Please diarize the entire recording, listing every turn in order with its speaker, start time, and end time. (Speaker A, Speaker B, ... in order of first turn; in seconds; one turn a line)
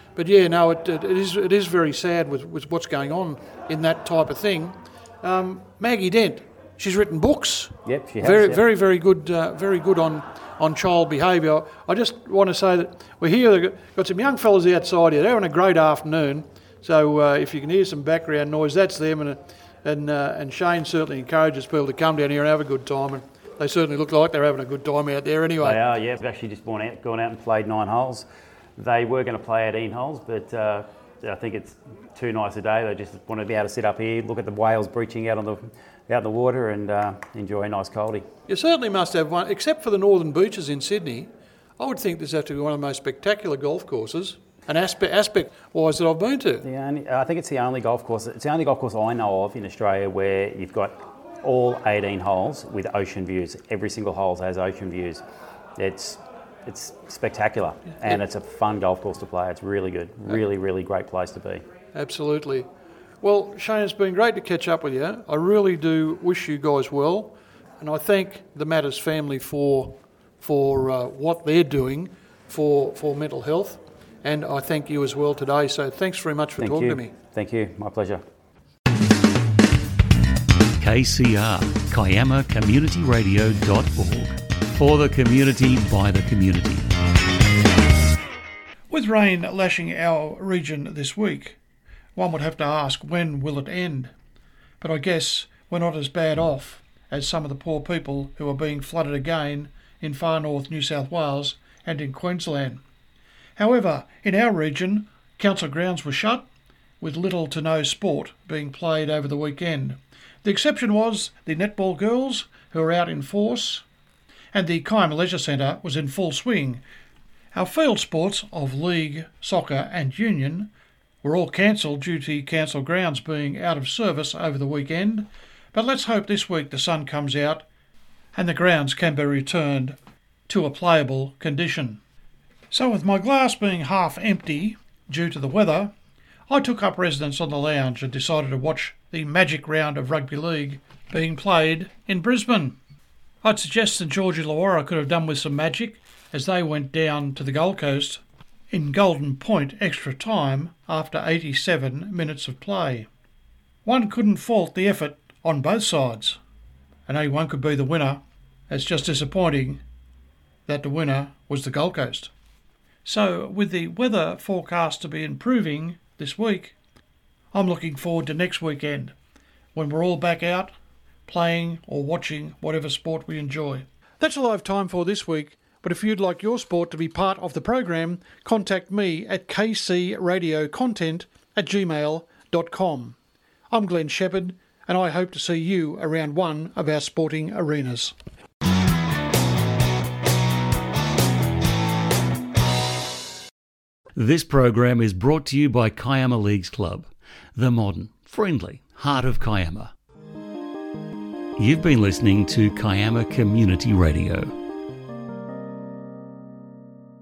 Speaker A: 0.2-25.8
Speaker B: 7.8-8.6
Speaker B: 25.6-38.2
Speaker A: 38.5-46.7
Speaker B: 46.6-55.2
Speaker B: 55.8-61.6
Speaker A: 61.9-62.7
Speaker A: 63.2-77.1
Speaker B: 76.6-78.2
Speaker C: 80.8-86.9
Speaker A: 88.9-91.6
Speaker A: 92.2-94.1
Speaker A: 94.8-102.8
Speaker A: 103.6-106.5
Speaker A: 107.0-113.8
Speaker A: 114.5-116.8
Speaker A: 117.5-120.7
Speaker A: 121.2-127.7
Speaker A: 128.3-130.0
Speaker A: 130.5-132.0
Speaker A: 132.7-135.9
Speaker A: 136.5-142.8
Speaker A: 143.4-153.1
Speaker A: 153.8-156.4
Speaker A: 157.1-159.8
Speaker A: 160.7-162.3
Speaker A: 163.1-166.8
Speaker A: 167.5-169.1
Speaker A: 169.8-170.7
Speaker A: 171.3-183.2
Speaker A: 183.7-188.2
Speaker C: 194.2-199.9
Speaker C: 201.6-204.5